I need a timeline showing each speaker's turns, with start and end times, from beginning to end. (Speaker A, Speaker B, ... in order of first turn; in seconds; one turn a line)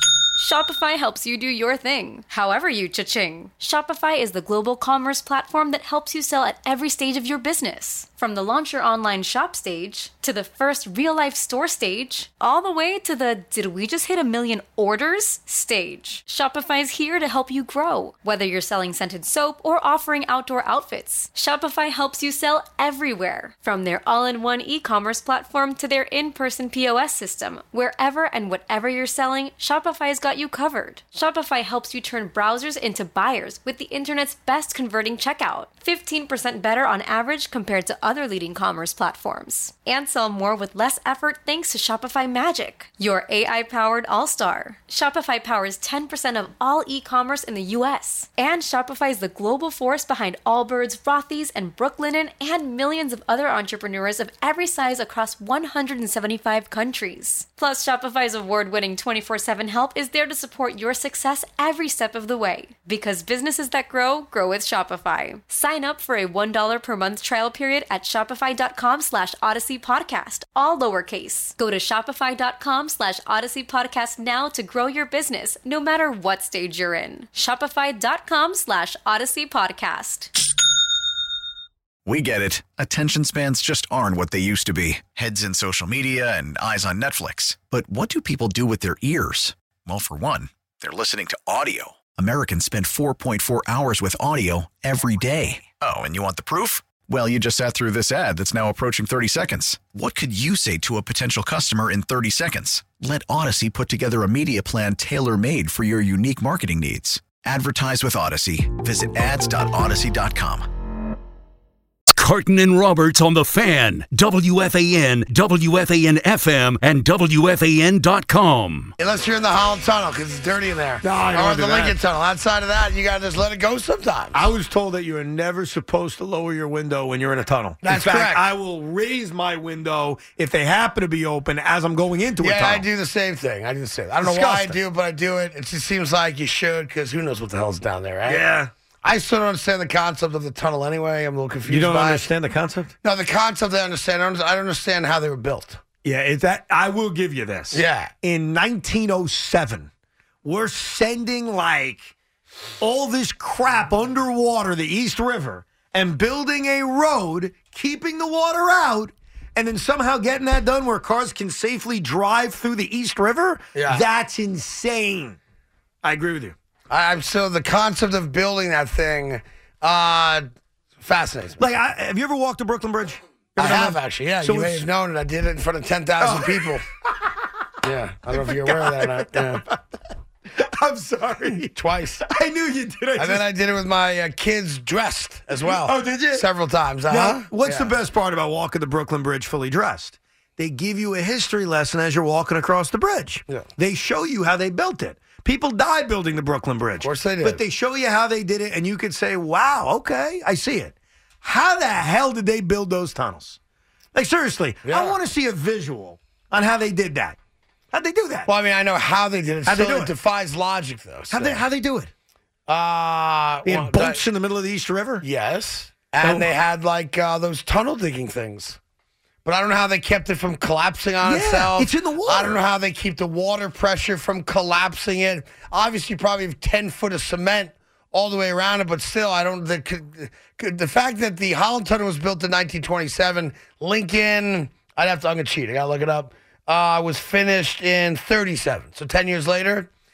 Speaker A: 0.3-80.3
Speaker B: 82.0-110.7
Speaker C: 112.1-118.9
Speaker D: 119.0-124.5
Speaker E: 121.0-122.0
Speaker E: 124.3-132.9
Speaker D: 127.8-128.4
Speaker D: 132.4-138.4
Speaker E: 134.2-134.8
Speaker E: 138.2-138.7
Speaker D: 139.0-142.3
Speaker E: 141.7-142.9
Speaker D: 143.0-145.8
Speaker E: 146.0-149.9
Speaker D: 147.7-148.1
Speaker E: 150.4-152.1
Speaker E: 152.8-165.4
Speaker D: 163.8-164.1
Speaker E: 166.0-166.6
Speaker D: 166.9-170.5
Speaker D: 171.0-171.6
Speaker E: 171.6-174.9
Speaker D: 173.6-176.8
Speaker E: 176.2-176.8
Speaker D: 177.8-179.6
Speaker E: 178.3-183.4
Speaker D: 181.7-182.3
Speaker D: 183.2-187.9
Speaker E: 185.5-186.5
Speaker E: 187.1-203.6
Speaker D: 197.0-197.6
Speaker E: 204.1-207.4
Speaker D: 204.9-205.2
Speaker E: 207.9-208.5
Speaker D: 208.5-211.6
Speaker E: 209.7-210.1
Speaker E: 211.3-212.1
Speaker D: 212.7-214.2
Speaker E: 213.6-215.2
Speaker D: 215.2-218.8
Speaker E: 216.2-216.5
Speaker D: 219.4-239.9
Speaker E: 221.2-222.6